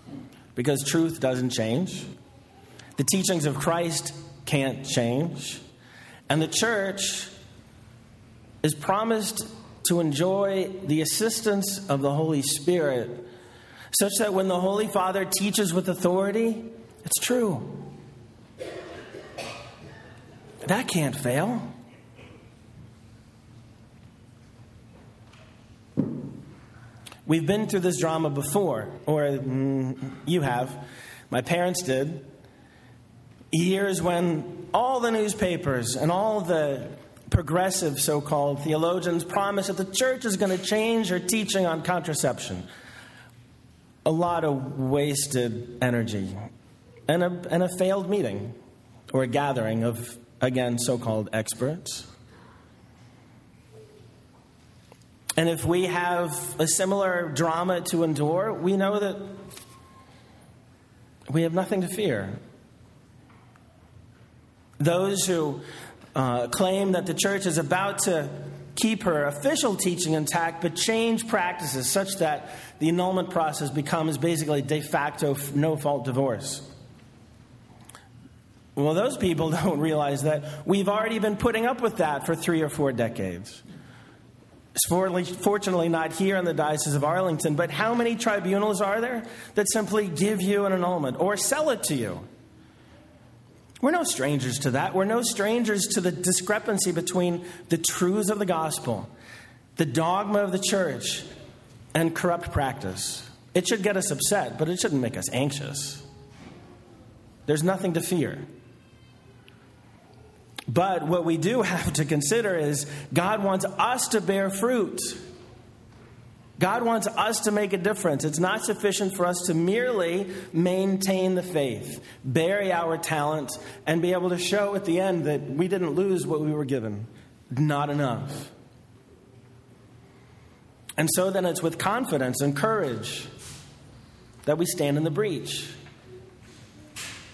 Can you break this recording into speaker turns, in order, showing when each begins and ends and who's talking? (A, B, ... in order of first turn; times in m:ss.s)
0:00.6-0:02.1 A
0:03.0-0:05.6 A
0:06.3-0:07.3 A
0:08.6-0:13.3 A
0:13.9-0:17.9 A
0:20.6-0:21.7 A
0:27.3-0:32.3 A
0:33.5-0:42.7 A
0:44.0-0:46.5 A
0:47.1-0:48.6 A
0:49.1-0:52.1 A
0:55.4-0:59.4 A
1:01.3-1:02.4 A
1:04.8-1:05.6 A
1:06.2-1:16.7 A
1:18.8-1:23.6 A
1:24.8-1:32.2 A
1:33.8-1:39.1 A
1:39.8-1:41.3 A
1:41.9-1:46.0 A
1:47.5-1:48.5 A
1:50.7-1:55.2 A
1:56.6-2:08.5 A
2:11.0-2:13.3 A
2:14.4-2:15.8 A